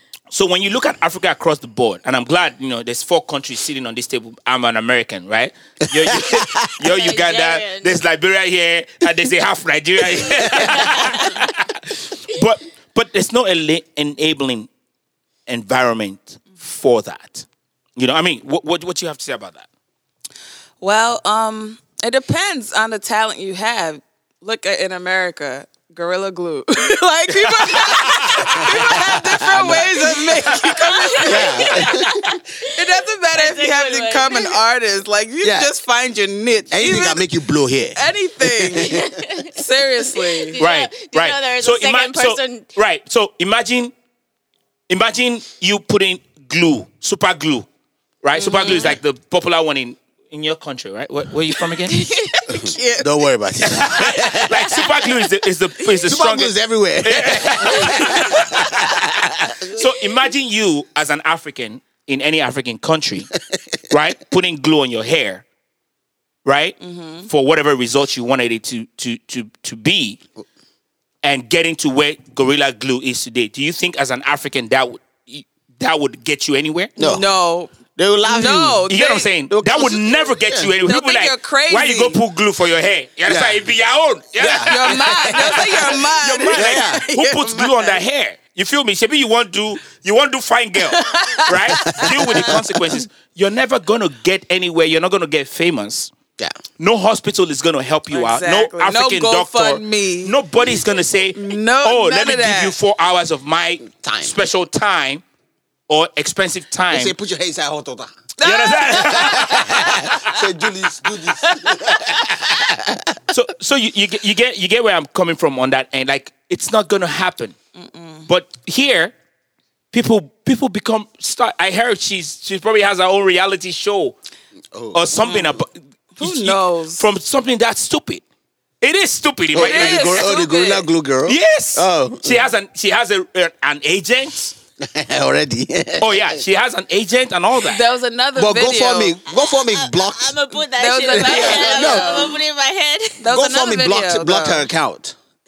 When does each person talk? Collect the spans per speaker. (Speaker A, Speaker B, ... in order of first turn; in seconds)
Speaker A: 0.3-14.7, 15.5-17.4, 18.0-19.7, 27.6-28.7, 40.6-43.9, 44.9-47.7, 48.2-52.1, 53.6-63.3, 63.9-65.4, 66.4-66.8, 67.3-70.2, 71.2-76.9, 78.9-96.1, 96.8-105.2, 105.9-107.1, 108.4-110.2, 113.3-117.5, 118.3-119.1, 119.9-124.2, 124.9-128.2, 128.8-130.3, 131.2-134.6, 136.0-137.8
Speaker B: 6.0-6.7, 10.2-10.9, 28.5-30.2, 31.2-32.2, 35.4-35.7, 36.7-39.1, 52.5-54.8, 56.0-59.8, 77.0-77.2, 78.0-78.9, 79.5-80.7, 83.2-83.7, 84.4-87.0, 91.8-93.0, 103.8-104.3, 106.9-108.1, 108.9-113.2, 124.7-125.2, 129.5-132.5, 134.8-136.4, 138.3-140.4, 141.1-142.3, 143.2-145.2
Speaker C: 6.9-8.0, 10.7-11.3, 30.8-32.8, 33.3-34.6, 38.9-39.6, 40.2-42.7, 139.3-143.2
Speaker D: 20.8-32.0, 32.6-37.2, 38.0-40.6, 48.4-49.0, 52.0-53.1, 66.8-67.3, 77.0-77.7, 78.2-79.3, 80.8-82.2, 84.5-88.0, 90.8-92.6, 98.1-100.3, 101.3-102.8, 108.4-110.2, 111.2-112.2, 117.8-118.3, 125.1-125.5, 126.2-127.0, 129.5-130.9, 137.6-139.2, 140.8-142.4, 143.2-144.7